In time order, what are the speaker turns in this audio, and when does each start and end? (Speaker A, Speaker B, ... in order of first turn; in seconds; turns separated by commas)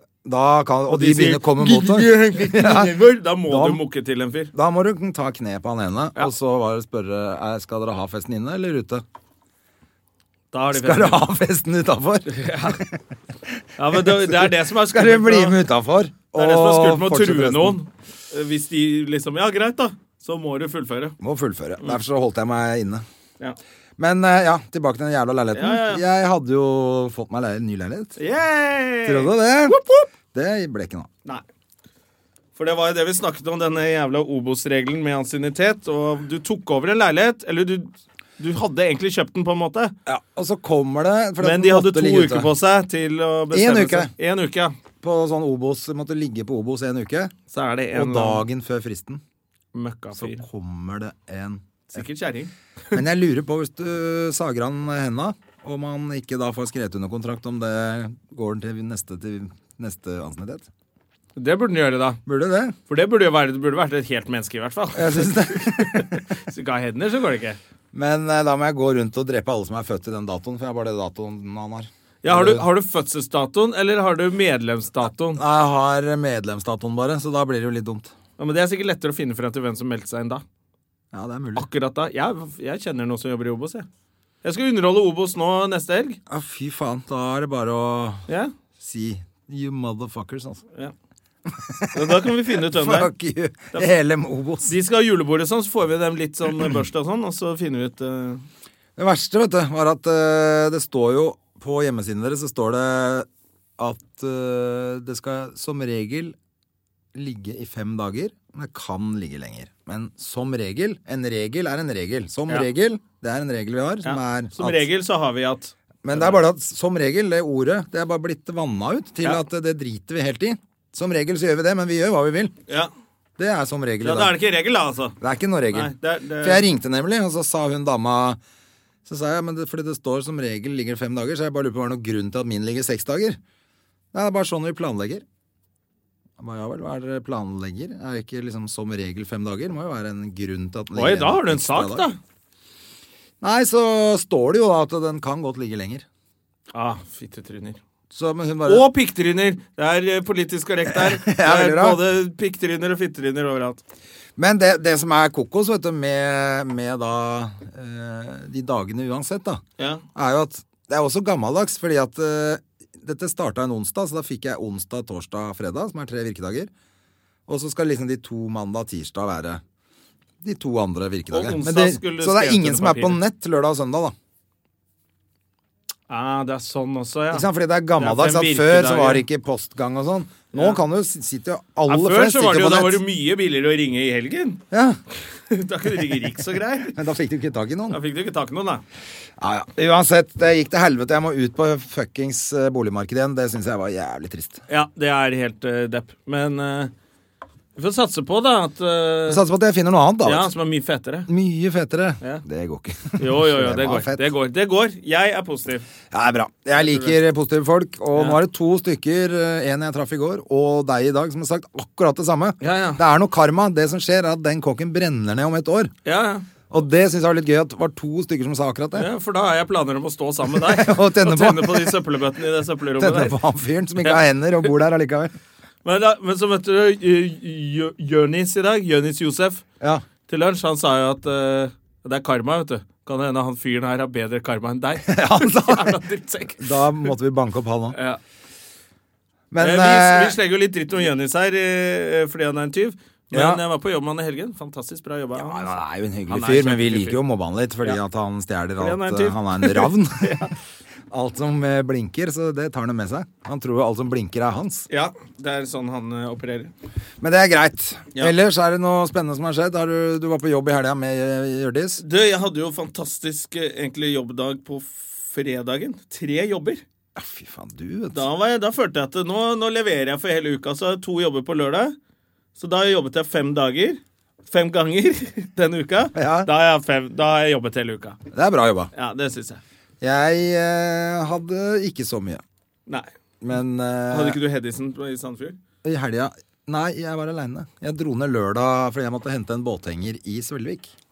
Speaker A: 0.2-3.8, Speaker B: 0.9-4.5, Speaker A: 4.5-9.0, Speaker B: 10.5-11.2, Speaker A: 10.7-12.8, Speaker B: 12.3-12.8, Speaker B: 13.8-15.6, Speaker A: 13.9-17.8, Speaker B: 16.4-21.2, Speaker A: 21.2-23.1, Speaker A: 24.0-28.2, Speaker B: 25.5-26.0, Speaker B: 28.2-30.1, Speaker A: 29.1-29.8, Speaker A: 30.3-31.1, Speaker B: 32.6-40.0, Speaker A: 40.1-42.5, Speaker B: 41.4-44.8, Speaker A: 43.5-44.1, Speaker A: 45.0-47.3, Speaker B: 47.5-48.4, Speaker A: 47.9-49.2, Speaker B: 49.7-50.5, Speaker A: 50.1-52.0, Speaker B: 51.9-53.0, Speaker A: 52.9-60.7, Speaker B: 61.4-62.2, Speaker A: 62.3-62.8, Speaker B: 62.9-67.6, Speaker A: 64.9-66.2, Speaker A: 67.9-72.7, Speaker B: 72.2-75.4, Speaker A: 75.4-78.1, Speaker B: 78.4-80.4, Speaker A: 81.1-81.7, Speaker B: 81.6-83.9, Speaker B: 84.4-86.2, Speaker A: 86.3-88.2, Speaker B: 88.3-88.5, Speaker A: 88.8-90.6, Speaker A: 91.5-94.7, Speaker B: 91.9-93.1, Speaker B: 94.7-98.5, Speaker A: 99.0-103.3, Speaker A: 103.8-106.3, Speaker A: 107.1-114.9, Speaker B: 114.0-116.4, Speaker A: 116.0-122.5, Speaker A: 123.4-124.4, Speaker B: 124.0-125.2, Speaker A: 125.2-128.4, Speaker B: 125.7-126.7, Speaker A: 129.1-133.4, Speaker A: 134.1-135.2, Speaker A: 136.4-142.1, Speaker B: 140.9-142.2, Speaker A: 143.4-146.1, Speaker B: 146.7-147.8, Speaker A: 148.1-148.9, Speaker B: 148.7-153.8, Speaker A: 150.9-152.0, Speaker A: 154.4-159.6, Speaker B: 159.8-160.0, Speaker A: 160.2-166.7, Speaker A: 167.5-169.6, Speaker A: 170.4-174.2, Speaker B: 171.3-173.2, Speaker B: 176.1-179.2, Speaker A: 177.3-183.0, Speaker B: 180.5-180.8, Speaker B: 181.9-184.6, Speaker A: 184.7-185.0, Speaker B: 185.5-187.0, Speaker A: 186.9-188.0, Speaker B: 187.9-188.8, Speaker A: 189.4-194.6, Speaker B: 194.7-196.9, Speaker B: 197.8-199.4, Speaker A: 199.3-200.5, Speaker B: 200.2-201.3, Speaker A: 201.3-204.2, Speaker B: 203.2-205.9, Speaker A: 206.1-215.9, Speaker B: 206.8-207.2, Speaker B: 208.1-208.4, Speaker B: 212.6-213.0, Speaker B: 216.1-216.5, Speaker A: 216.7-219.1, Speaker B: 219.0-223.4, Speaker A: 220.5-222.0, Speaker A: 223.0-225.3, Speaker B: 224.0-224.7, Speaker B: 225.8-229.6, Speaker B: 230.3-237.1, Speaker A: 235.1-236.0, Speaker A: 236.6-238.0, Speaker B: 237.9-238.2, Speaker A: 239.5-240.4, Speaker B: 239.6-245.7, Speaker A: 243.3-243.6, Speaker A: 245.4-250.5, Speaker B: 246.3-247.2, Speaker B: 248.8-250.5, Speaker A: 251.1-254.9, Speaker B: 254.9-256.7, Speaker A: 257.2-262.0, Speaker B: 262.0-266.8, Speaker A: 267.2-268.3, Speaker B: 268.1-271.9, Speaker B: 272.6-278.2, Speaker A: 276.1-276.5, Speaker A: 278.3-278.9, Speaker B: 278.9-279.6, Speaker A: 280.0-282.4, Speaker A: 283.4-284.4, Speaker B: 284.1-285.6, Speaker A: 285.8-290.9